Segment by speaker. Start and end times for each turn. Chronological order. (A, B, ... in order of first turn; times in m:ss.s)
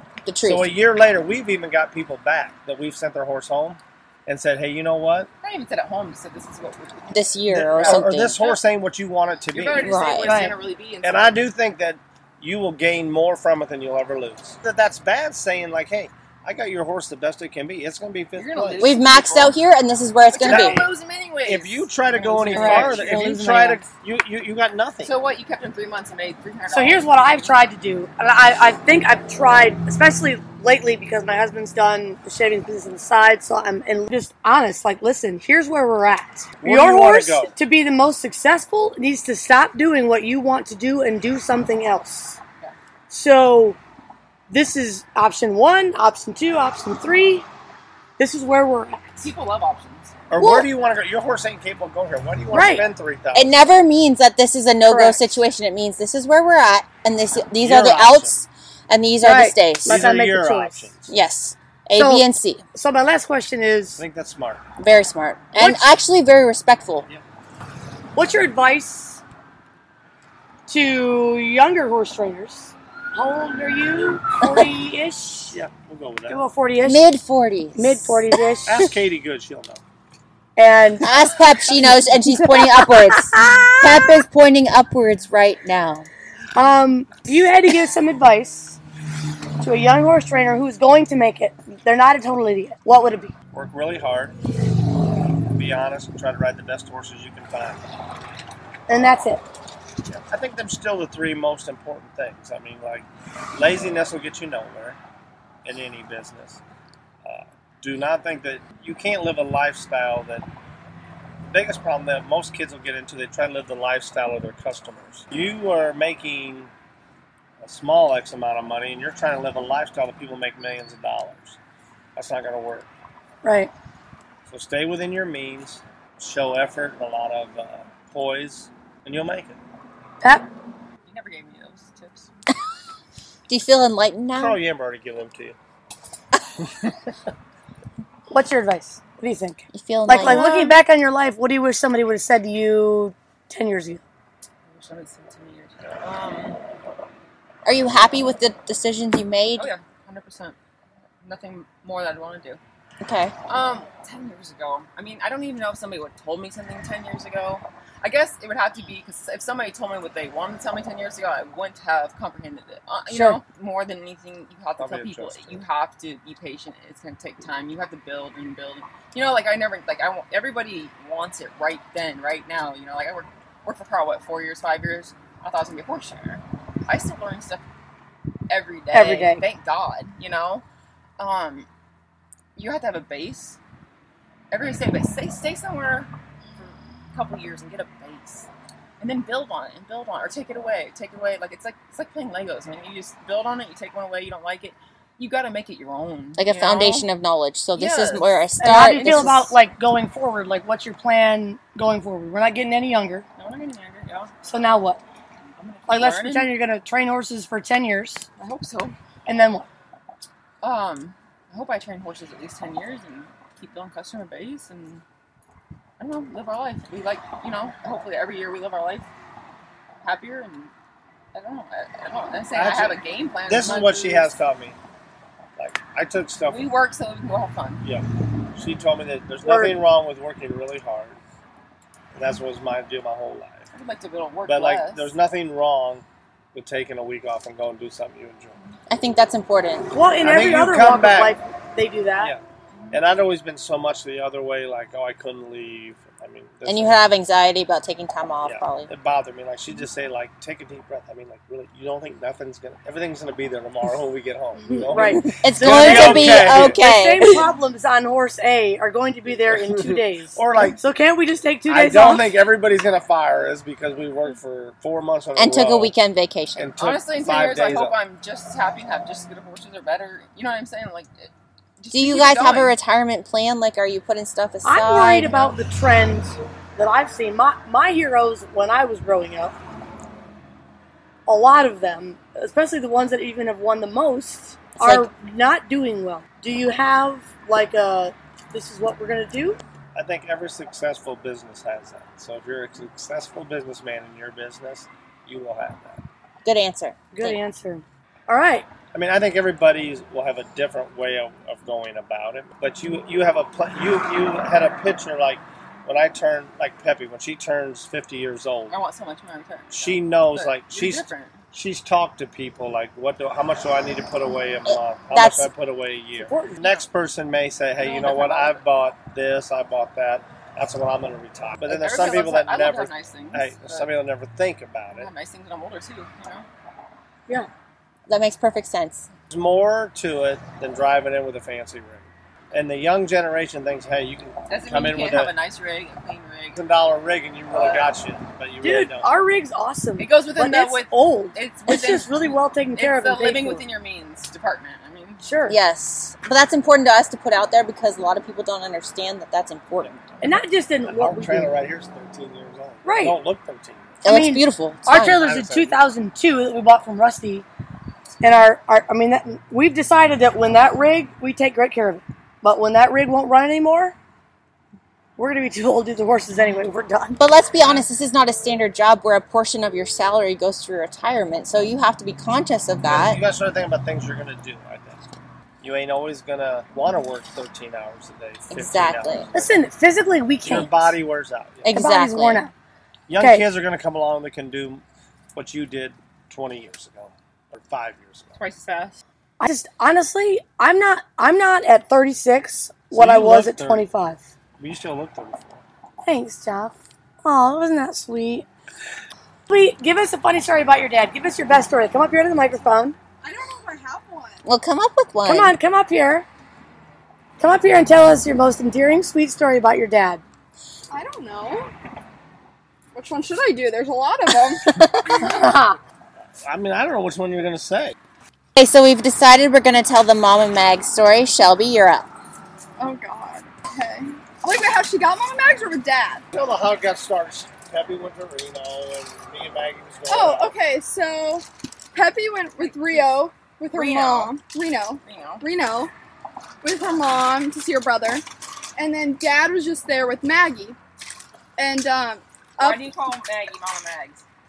0:00.2-0:00.7 A
0:00.4-0:05.3 B
0:05.4-0:08.6 C
0:07.1-0:08.4 A
0:07.5-0:10.0 B
0:09.5-0:11.4 C
0:09.8-0:10.4 A
0:10.2-0:10.5 D
0:11.0-0:18.9 B
0:18.4-0:19.6 C
0:18.8-0:20.8 A
0:20.3-0:23.1 C
0:20.4-0:20.9 B
0:21.4-0:25.1 B
0:22.5-0:23.8 D
0:25.0-0:27.4 C
0:26.7-0:42.4 D
0:36.6-0:37.5 B
0:43.1-0:43.8 D
0:44.5-0:47.4 D
0:48.2-0:49.3 D
0:49.2-0:50.1 C
0:50.3-0:53.7 B
0:50.4-0:50.7 D
0:52.5-0:52.8 D
0:53.3-1:00.1 A
0:54.8-0:55.4 D
0:57.5-0:58.3 B
0:59.2-1:00.9 D
0:59.8-1:01.1 B
1:01.1-1:02.6 A
1:01.9-1:04.0 D
1:04.0-1:04.6 B
1:04.8-1:07.1 A
1:05.6-1:05.9 D
1:08.1-1:09.2 D
1:10.7-1:15.6 D
1:15.5-1:16.4 B
1:16.3-1:17.0 D
1:16.8-1:18.2 A
1:17.8-1:18.8 D
1:18.6-1:19.8 B
1:20.6-1:21.1 D
1:21.0-1:26.1 A
1:21.7-1:24.2 D
1:26.5-1:28.8 D
1:29.6-1:33.3 D
1:33.5-1:34.4 B
1:35.3-1:37.8 B
1:38.9-1:39.4 D
1:40.1-1:45.0 B
1:45.6-1:46.6 B
1:47.2-1:50.4 B
1:51.4-1:56.7 B
1:57.6-2:01.6 B
2:02.2-2:02.9 B
2:03.4-2:03.7 D
2:04.5-2:09.6 B
2:11.0-2:12.3 C
2:13.5-2:14.6 A
2:14.3-2:15.6 B
2:16.6-2:17.1 B
2:18.3-2:24.0 D
2:19.7-2:20.8 A
2:24.7-2:26.6 C
2:27.6-2:29.7 A
2:29.6-2:30.6 C
2:31.2-2:32.6 C
2:33.0-2:33.3 A
2:33.5-2:57.6 C
2:43.1-2:43.4 D
2:44.8-2:45.6 B
2:58.5-3:00.6 C
2:58.9-2:59.4 D
3:01.2-3:01.7 C
3:02.6-3:03.6 C
3:04.5-3:08.5 C
3:09.0-3:17.1 C
3:16.4-3:19.6 A
3:17.8-3:19.3 C
3:18.6-3:23.2 D
3:23.4-3:24.3 C
3:24.4-3:25.0 D
3:25.6-3:26.5 C
3:25.9-3:28.2 D
3:28.4-3:28.9 C
3:29.2-3:29.7 D
3:30.6-3:35.0 C
3:36.0-3:39.1 C
3:40.0-3:40.7 C
3:41.3-3:44.3 C
3:42.5-3:44.8 B
3:45.6-3:46.7 B
3:46.5-3:47.8 C
3:47.8-3:51.2 B
3:49.4-3:49.8 D
3:52.1-3:53.7 B
3:53.7-3:55.1 C
3:54.4-3:58.6 B
3:58.9-3:59.9 A
3:59.9-4:02.3 D
4:00.2-4:01.4 B
4:02.2-4:07.1 B
4:06.6-4:08.9 A
4:08.4-4:16.8 B
4:14.6-4:22.3 D
4:15.2-4:17.4 A
4:19.5-4:20.8 B
4:21.7-4:25.9 B
4:25.4-4:26.7 A
4:26.6-4:28.0 B
4:26.8-4:32.7 C
4:31.9-4:35.4 A
4:34.6-4:39.5 D
4:41.3-4:49.6 D
4:44.8-4:45.1 A
4:49.9-4:56.0 B
4:56.4-4:57.4 A
4:57.1-4:58.7 D
4:58.9-5:08.8 B
5:08.7-5:11.4 C
5:09.7-5:25.1 B
5:14.7-5:15.5 A
5:16.2-5:16.6 D
5:17.8-5:18.6 C
5:21.7-5:23.9 C
5:24.9-5:26.4 C
5:28.1-5:29.1 A
5:29.3-5:35.3 B
5:34.5-5:36.6 C
5:36.5-5:39.1 B
5:37.5-5:37.9 C
5:38.6-5:43.6 D
5:40.0-5:42.2 C
5:42.8-5:45.2 C
5:45.2-5:45.6 D
5:45.5-5:50.1 A
5:50.2-5:51.5 D
5:50.8-5:54.0 B
5:52.8-5:53.2 D
5:54.0-5:55.2 A
5:54.0-5:57.4 D
5:55.0-5:55.8 B
5:58.2-6:04.0 D
6:05.2-6:07.2 D
6:07.2-6:13.2 A
6:12.8-6:15.0 B
6:15.6-6:19.6 B
6:18.5-6:19.3 A
6:19.3-6:20.9 D
6:20.4-6:21.9 B
6:21.6-6:22.4 A
6:21.7-6:22.5 D
6:23.1-6:24.8 B
6:23.2-6:23.4 D
6:25.3-6:28.4 B
6:28.4-6:29.0 C
6:29.4-6:34.2 D
6:32.9-6:33.9 B
6:34.6-6:35.6 B
6:36.0-6:38.4 D
6:39.5-6:43.0 D
6:43.2-6:44.4 E
6:44.4-6:45.5 A
6:45.2-6:46.2 D
6:47.4-6:50.2 D
6:50.9-6:51.7 E
6:52.9-6:54.7 E
6:54.3-6:55.3 A
6:55.2-6:55.8 D
6:56.4-6:58.0 B
6:58.5-7:02.1 A
7:02.8-7:06.2 E
7:06.3-7:10.5 B
7:10.1-7:15.9 E
7:13.7-7:14.3 C
7:15.0-7:15.4 C
7:16.6-7:18.2 E
7:18.8-7:20.8 E
7:21.6-7:22.8 E
7:22.6-7:24.2 C